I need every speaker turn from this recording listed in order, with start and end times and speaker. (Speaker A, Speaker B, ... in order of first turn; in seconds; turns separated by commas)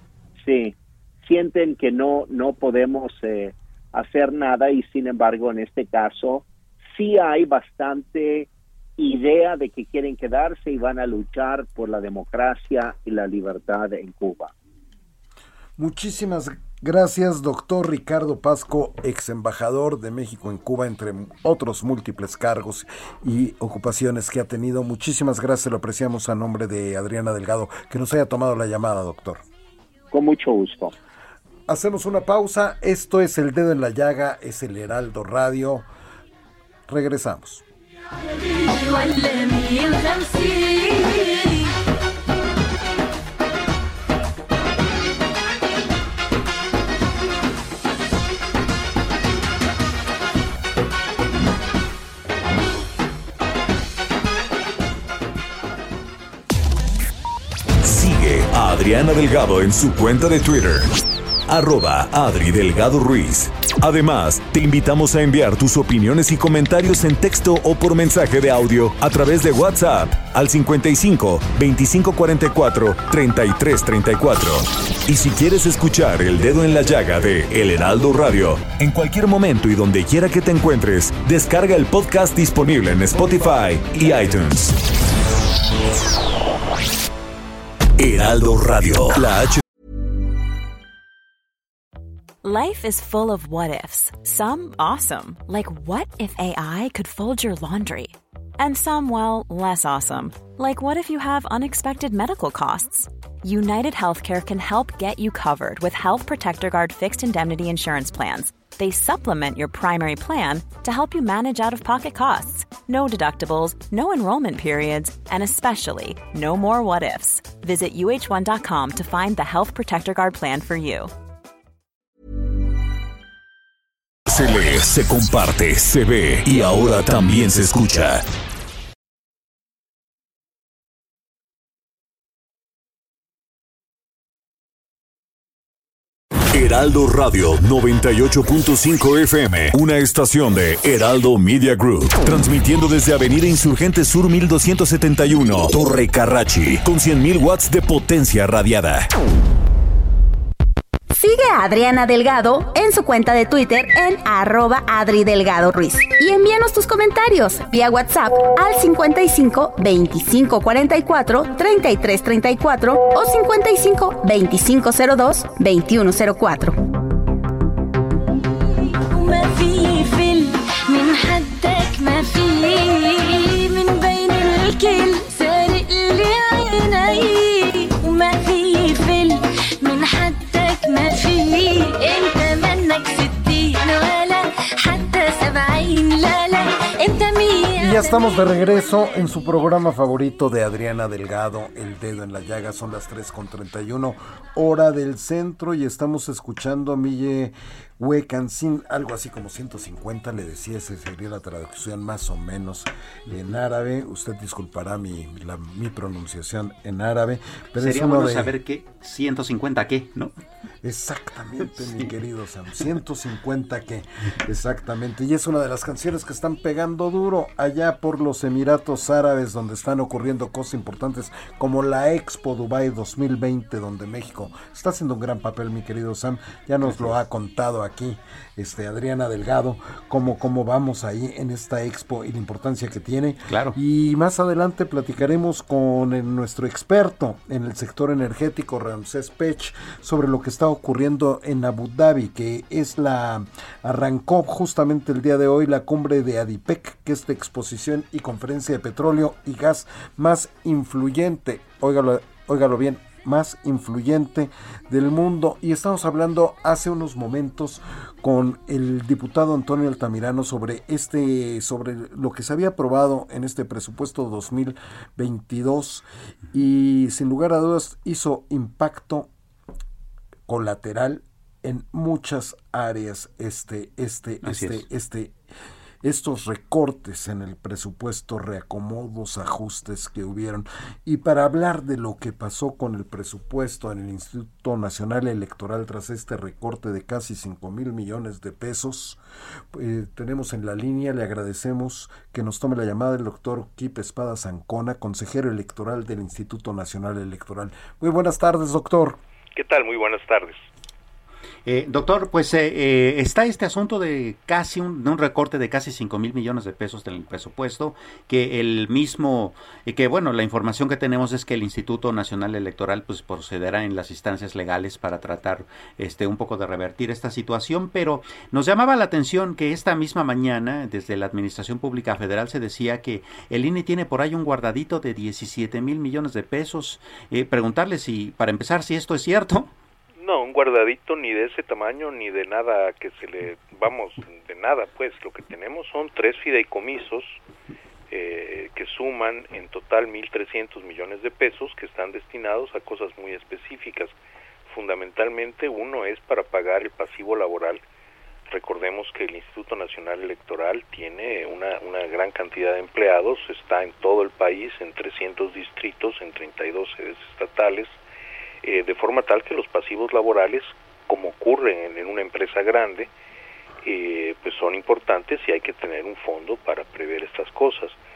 Speaker A: 0.4-14.5, Speaker B: 15.8-29.4, Speaker A: 30.1-30.9, Speaker B: 31.7-35.9, Speaker B: 36.9-37.6, Speaker C: 38.4-41.7, Speaker D: 57.8-60.9, Speaker D: 61.5-84.8, Speaker D: 88.0-89.6, Speaker E: 92.4-121.1, Speaker D: 124.3-128.2, Speaker D: 136.5-149.1, Speaker F: 151.1-166.8, Speaker C: 169.1-189.0, Speaker B: 187.8-208.5, Speaker G: 207.8-210.3, Speaker B: 210.8-269.3, Speaker G: 226.8-227.1, Speaker G: 233.5-233.8, Speaker B: 270.5-275.3, Speaker G: 274.4-274.8, Speaker B: 276.0-289.2, Speaker B: 289.7-299.2, Speaker H: 299.5-300.7, Speaker G: 301.6-329.7, Speaker H: 330.2-337.4, Speaker H: 338.1-347.8, Speaker H: 348.5-358.0, Speaker H: 358.6-363.1, Speaker H: 363.8-368.0